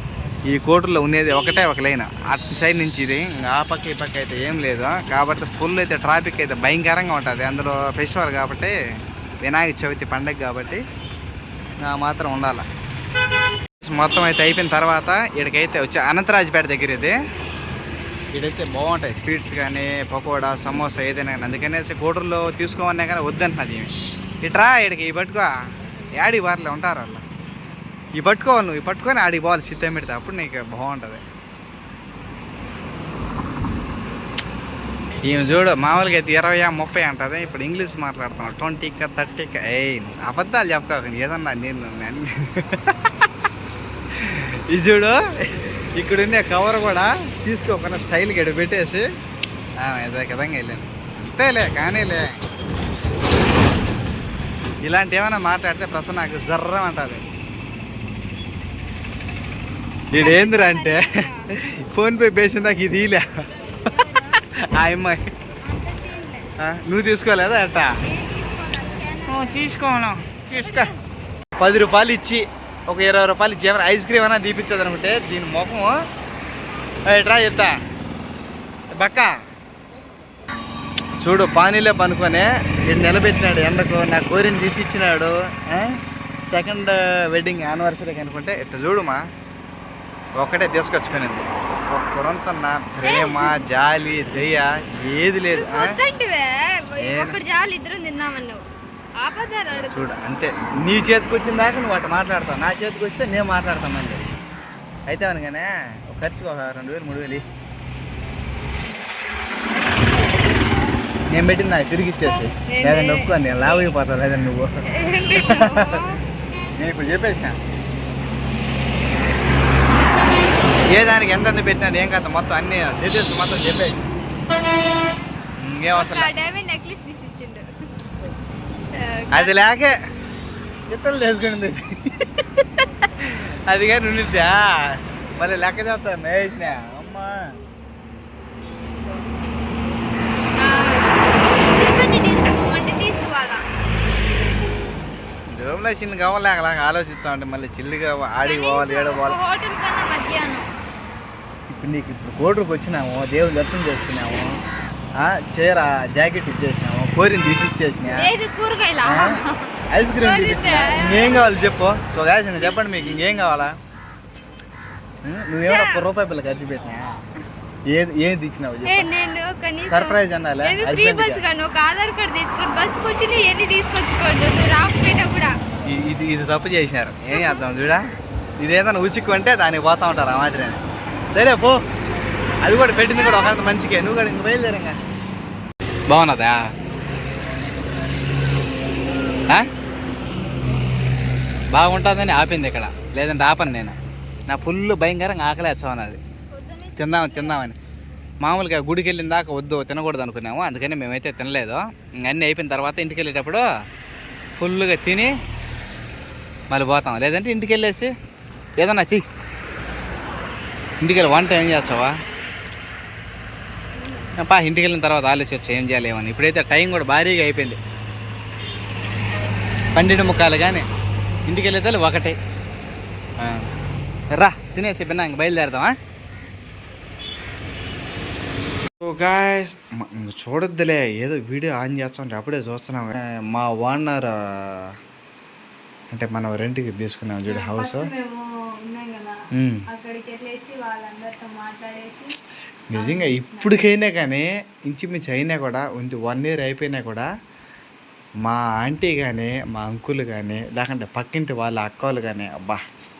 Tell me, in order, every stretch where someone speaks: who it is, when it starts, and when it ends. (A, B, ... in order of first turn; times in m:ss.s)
0:00.5-0:08.7 A
0:09.4-0:10.8 A
0:11.8-0:12.6 A
0:13.8-0:17.2 A
0:18.3-0:25.5 A
0:26.2-0:27.2 A
0:28.2-0:31.2 A
0:35.2-0:42.9 A
0:44.1-0:49.0 A
0:49.8-0:52.4 A
0:54.8-0:57.2 A
1:00.1-1:03.3 A
1:00.2-1:01.5 B
1:03.8-1:04.4 B
1:04.7-1:05.2 A
1:05.6-1:06.5 B
1:06.6-1:07.9 A
1:08.0-1:09.7 B
1:09.2-1:10.9 A
1:10.5-1:11.0 B
1:11.6-1:15.9 A
1:17.1-1:17.8 A
1:18.9-1:19.3 A
1:21.2-1:29.2 A
1:30.4-1:35.9 A
1:33.0-1:33.6 B
1:35.5-1:38.7 B
1:37.0-1:37.4 A
1:39.2-1:40.2 B
1:39.8-1:44.2 A
1:45.1-1:47.4 A
1:51.3-1:54.7 A
1:52.5-1:53.9 B
1:54.9-1:56.2 B
1:55.3-1:56.1 A
1:56.8-1:57.6 A
2:00.8-2:04.0 A
2:05.6-2:06.3 A
2:05.9-2:07.7 B
2:08.9-2:09.6 B
2:09.3-2:10.0 A
2:10.9-2:17.4 A
2:20.6-2:23.6 B
2:25.5-2:29.4 A
2:28.4-2:30.7 B
2:31.7-2:34.5 A
2:35.2-2:38.3 A
2:38.1-2:41.4 B
2:39.0-2:39.4 A
2:39.9-2:43.7 A
2:42.6-2:43.0 B
2:45.2-2:47.1 A
2:45.6-2:46.0 B
2:47.9-2:49.1 A
2:48.8-2:55.6 B
2:49.9-2:51.4 A
2:55.8-2:58.0 A
2:57.3-2:57.6 B
2:58.6-3:00.8 A
3:01.3-3:01.8 A
3:02.6-3:05.0 A
3:03.1-3:03.6 B
3:06.1-3:06.6 A
3:11.7-3:16.2 A
3:16.5-3:17.6 B
3:17.0-3:17.8 A
3:18.4-3:23.7 A
3:24.6-3:25.3 A
3:26.7-3:28.1 A
3:28.8-3:29.2 A
3:31.0-3:32.1 A
3:34.0-3:34.3 B
3:34.4-3:37.8 A
3:39.9-3:40.9 A
3:41.5-3:42.4 A
3:44.3-3:45.9 A
3:49.0-3:54.9 A
3:56.1-3:58.1 A
3:57.4-3:59.4 B
3:59.5-3:59.8 A
3:59.9-4:02.4 B
4:02.9-4:07.3 A
4:02.9-4:03.8 B
4:08.4-4:12.8 A